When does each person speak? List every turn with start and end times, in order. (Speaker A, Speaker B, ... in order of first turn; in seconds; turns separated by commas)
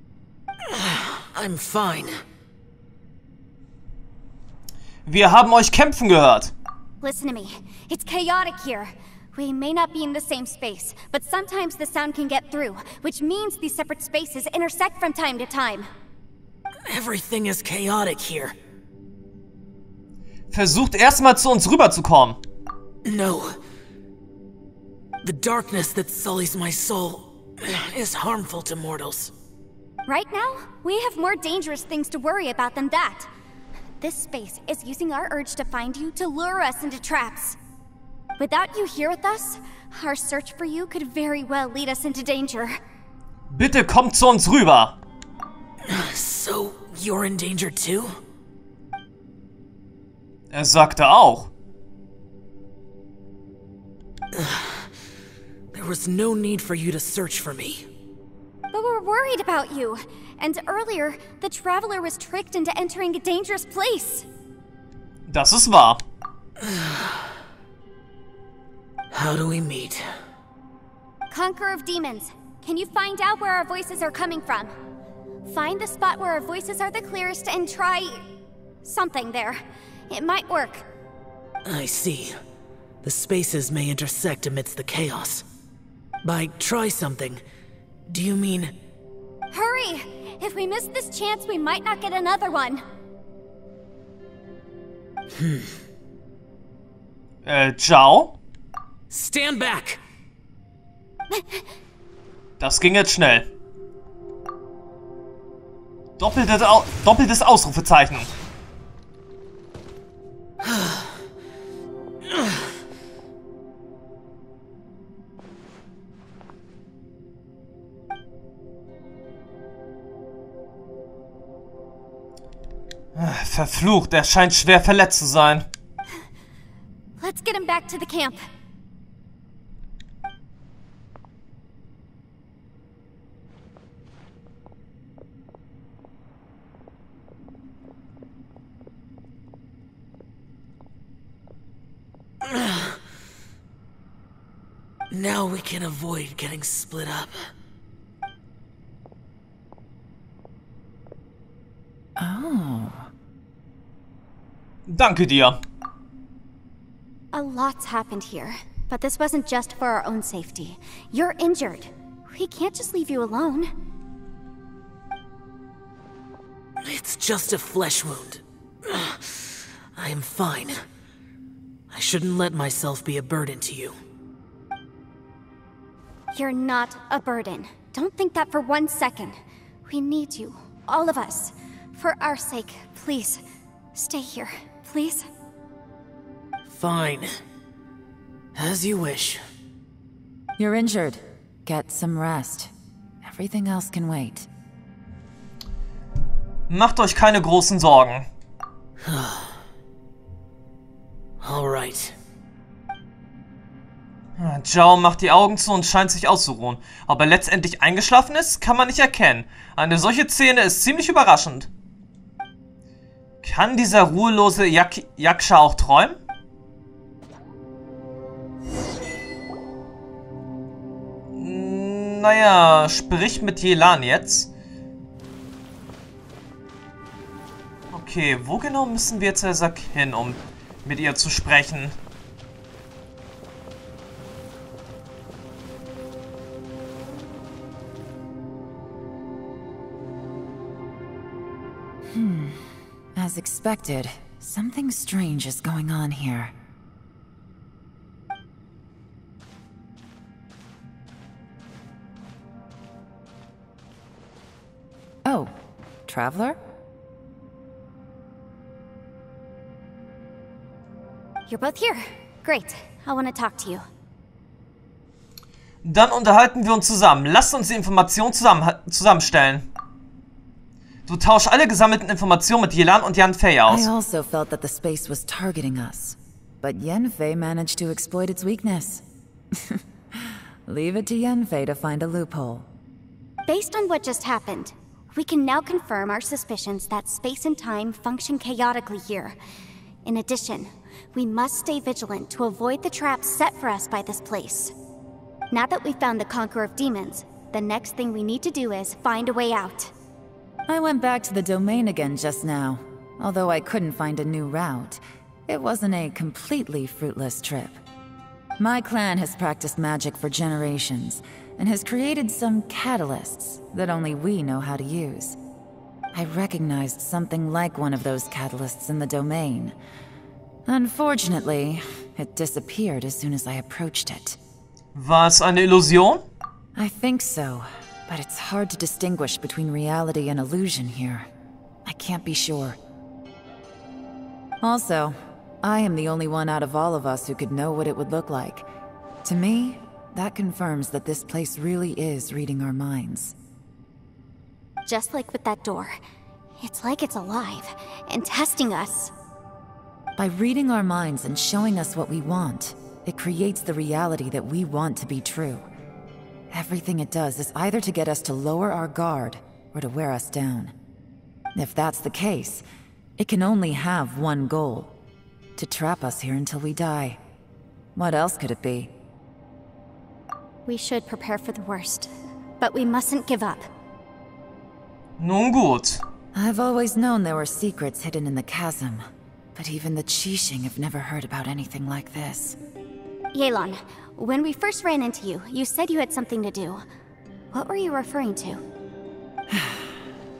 Speaker A: 0.7-2.2, Speaker B: 5.1-6.5, Speaker C: 7.0-15.9, Speaker A: 16.9-18.6, Speaker B: 20.5-22.4, Speaker A: 23.1-23.6, Speaker A: 25.2-29.3, Speaker C: 30.1-33.3, Speaker C: 34.0-37.6, Speaker C: 38.4-42.8, Speaker B: 43.5-45.0, Speaker A: 45.9-48.2, Speaker B: 50.5-51.5, Speaker A: 54.3-54.9, Speaker A: 55.7-57.9, Speaker C: 58.7-64.3, Speaker B: 65.3-66.0, Speaker A: 66.6-67.3, Speaker A: 69.1-70.1, Speaker C: 71.3-74.7, Speaker C: 75.5-78.2, Speaker C: 78.8-80.9, Speaker A: 81.7-82.4, Speaker A: 83.0-85.5, Speaker A: 86.2-87.4, Speaker A: 88.1-88.7, Speaker C: 89.5-92.8, Speaker A: 95.4-95.7, Speaker B: 97.5-98.4, Speaker A: 99.1-100.0, Speaker C: 101.3-101.6, Speaker B: 102.6-103.5, Speaker B: 106.2-108.3, Speaker A: 110.6-111.2, Speaker A: 112.3-112.6, Speaker B: 123.2-125.7, Speaker C: 127.2-128.5, Speaker A: 142.4-143.0, Speaker A: 145.1-147.4, Speaker D: 152.2-153.1, Speaker B: 154.9-155.6, Speaker C: 157.3-163.7, Speaker A: 166.8-170.8, Speaker A: 171.9-174.0, Speaker C: 176.3-183.4, Speaker C: 183.9-185.3, Speaker A: 186.7-187.4, Speaker A: 188.6-189.4, Speaker D: 190.6-192.7, Speaker D: 193.2-194.5, Speaker B: 196.7-198.3, Speaker A: 199.0-199.6, Speaker A: 201.4-202.2, Speaker B: 204.4-211.7, Speaker B: 213.4-216.2, Speaker B: 221.3-224.5, Speaker B: 227.9-231.9, Speaker D: 242.1-246.6, Speaker D: 255.2-255.5, Speaker D: 256.1-256.6, Speaker C: 261.5-263.9, Speaker B: 265.8-269.7, Speaker B: 271.1-273.9, Speaker D: 273.7-279.0, Speaker D: 279.6-282.7, Speaker C: 283.5-289.4, Speaker C: 290.1-294.7, Speaker C: 295.5-299.9, Speaker D: 300.7-307.8, Speaker D: 308.6-315.4, Speaker D: 316.1-319.8, Speaker D: 320.7-324.4, Speaker B: 324.9-326.2, Speaker D: 326.8-331.3, Speaker D: 331.9-332.8, Speaker D: 334.6-338.7, Speaker D: 339.2-343.4, Speaker C: 344.9-346.0, Speaker C: 346.6-349.1, Speaker D: 350.2-355.6, Speaker D: 356.5-360.7, Speaker D: 361.6-362.6, Speaker D: 363.2-364.9, Speaker D: 365.6-367.2, Speaker D: 368.0-368.9, Speaker C: 370.7-373.7, Speaker B: 375.2-376.0, Speaker D: 376.4-382.6, Speaker C: 383.3-386.8, Speaker C: 387.5-388.6, Speaker D: 389.5-389.9